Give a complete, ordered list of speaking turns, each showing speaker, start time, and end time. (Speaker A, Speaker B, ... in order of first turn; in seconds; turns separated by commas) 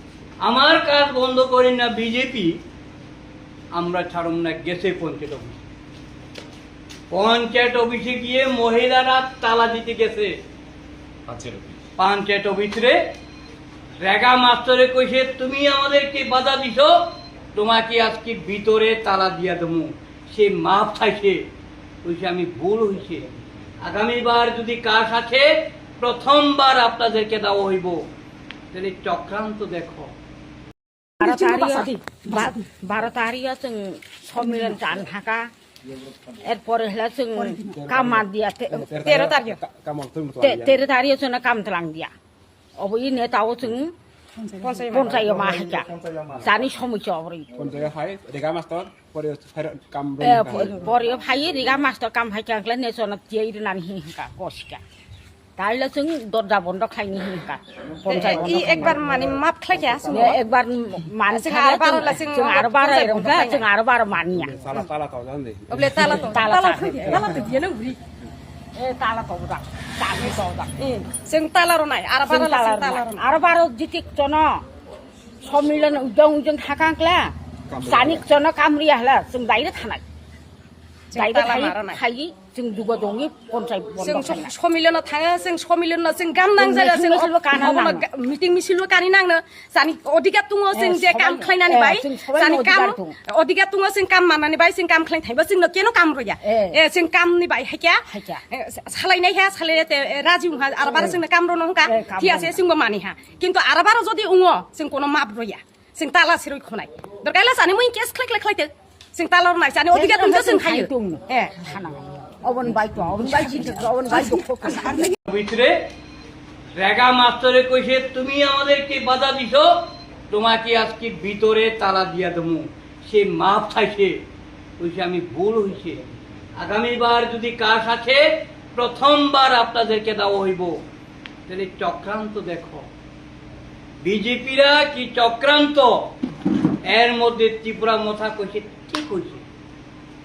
Speaker A: 0.4-2.6, Speaker A: 3.7-5.6, Speaker A: 7.1-10.3, Speaker A: 12.0-13.0, Speaker A: 14.0-17.0, Speaker A: 17.5-21.4, Speaker A: 22.0-23.3, Speaker A: 23.8-28.0, Speaker A: 28.7-30.1, Speaker B: 31.2-31.9, Speaker C: 31.2-35.5, Speaker C: 36.4-39.1, Speaker D: 37.7-40.8, Speaker B: 39.0-39.6, Speaker C: 40.4-42.1, Speaker C: 42.8-43.9, Speaker B: 44.4-45.3, Speaker C: 44.9-47.5, Speaker D: 47.6-50.9, Speaker C: 50.2-54.8, Speaker C: 55.6-59.0, Speaker B: 58.1-60.4, Speaker C: 60.1-64.6, Speaker B: 61.3-63.7, Speaker D: 64.3-66.4, Speaker B: 65.7-68.0, Speaker C: 66.0-67.3, Speaker D: 67.1-67.4, Speaker C: 68.8-70.7, Speaker B: 70.3-73.2, Speaker C: 72.3-74.6, Speaker C: 75.4-80.0, Speaker D: 77.7-78.2, Speaker B: 81.1-82.0, Speaker C: 81.1-84.5, Speaker B: 84.0-111.5, Speaker C: 86.6-88.0, Speaker C: 90.7-93.2, Speaker C: 96.4-96.8, Speaker C: 98.1-98.4, Speaker C: 100.8-101.2, Speaker C: 101.8-102.6, Speaker C: 109.9-115.1, Speaker B: 113.4-114.8, Speaker A: 115.3-115.9, Speaker A: 116.8-119.7, Speaker A: 120.3-124.2, Speaker A: 124.8-126.0, Speaker A: 126.6-130.8, Speaker A: 131.5-132.9, Speaker A: 134.0-136.0, Speaker A: 136.9-139.4